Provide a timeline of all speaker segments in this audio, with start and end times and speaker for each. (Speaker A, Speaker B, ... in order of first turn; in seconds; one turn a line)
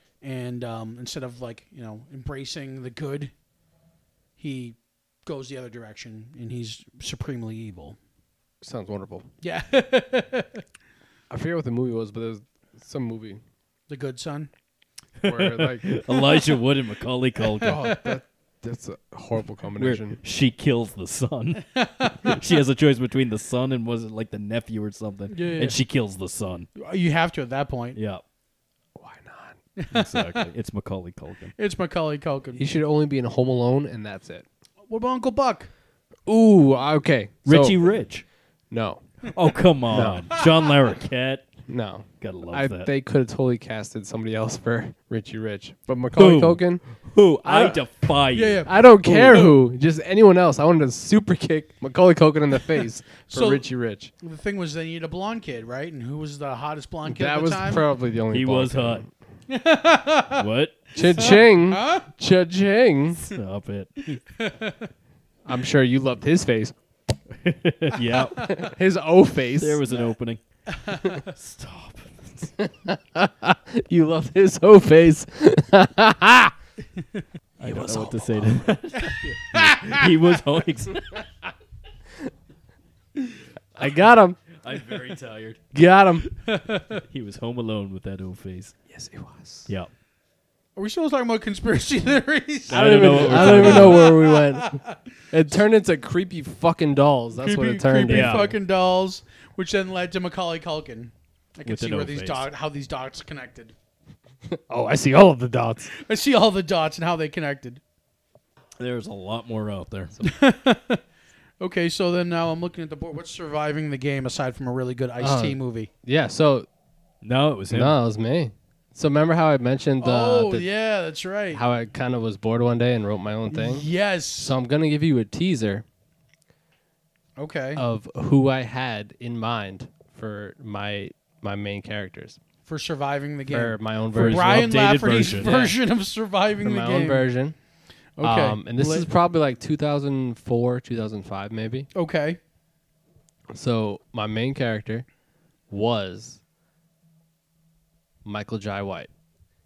Speaker A: 0.2-3.3
Speaker A: 4.4-8.0
Speaker B: 8.6-9.3
Speaker A: 9.4-10.6
Speaker B: 11.3-13.4
Speaker A: 13.9-14.5
Speaker C: 15.2-17.8
Speaker B: 15.2-16.0
Speaker A: 17.6-18.2
Speaker B: 17.6-20.2
Speaker C: 19.8-26.7
Speaker A: 21.7-22.3
Speaker A: 25.3-25.8
Speaker A: 26.8-28.0
Speaker C: 27.9-28.2
Speaker B: 28.9-29.6
Speaker A: 29.8-30.5
Speaker C: 29.9-31.5
Speaker A: 31.6-32.6
Speaker B: 32.5-34.5
Speaker A: 34.9-35.7
Speaker B: 36.2-37.8
Speaker C: 37.5-38.2
Speaker B: 38.7-39.3
Speaker C: 39.3-41.5
Speaker B: 39.9-40.3
Speaker B: 41.7-46.9
Speaker C: 42.2-42.9
Speaker C: 46.1-48.7
Speaker B: 47.4-47.8
Speaker A: 48.3-49.6
Speaker B: 48.6-54.1
Speaker A: 53.3-53.6
Speaker A: 54.2-57.8
Speaker B: 57.0-59.1
Speaker C: 58.3-59.0
Speaker A: 59.5-62.1
Speaker C: 60.3-60.8
Speaker B: 61.0-63.2
Speaker C: 63.3-64.2
Speaker A: 64.3-64.9
Speaker B: 65.4-66.7
Speaker C: 67.3-68.5
Speaker A: 68.2-68.6
Speaker B: 68.4-69.8
Speaker C: 69.6-70.4
Speaker A: 70.7-71.3
Speaker C: 71.3-72.5
Speaker B: 72.6-76.5
Speaker C: 77.6-81.0
Speaker B: 77.6-78.7
Speaker A: 79.0-80.1
Speaker B: 83.8-84.4
Speaker C: 84.5-85.6
Speaker B: 85.7-86.3
Speaker A: 86.4-87.0
Speaker C: 87.0-88.7
Speaker B: 88.9-89.7
Speaker A: 90.8-95.0
Speaker C: 92.7-94.1
Speaker B: 92.7-98.5
Speaker A: 97.3-103.7
Speaker C: 98.1-98.5
Speaker C: 101.6-102.5
Speaker B: 104.5-105.9
Speaker A: 105.9-107.8
Speaker C: 108.8-110.1
Speaker A: 110.2-111.0
Speaker A: 111.6-115.9
Speaker B: 115.2-116.7
Speaker C: 117.2-118.0
Speaker B: 117.7-120.7
Speaker A: 120.0-121.6
Speaker B: 121.5-125.8
Speaker A: 123.5-124.5
Speaker A: 127.4-127.8
Speaker B: 127.8-132.4
Speaker A: 132.7-137.3
Speaker B: 133.5-135.7
Speaker C: 134.1-135.7
Speaker B: 136.6-137.6
Speaker A: 138.2-139.1
Speaker B: 138.2-141.9
Speaker A: 141.9-142.4
Speaker B: 143.5-145.1
Speaker B: 145.7-146.4
Speaker B: 148.2-149.1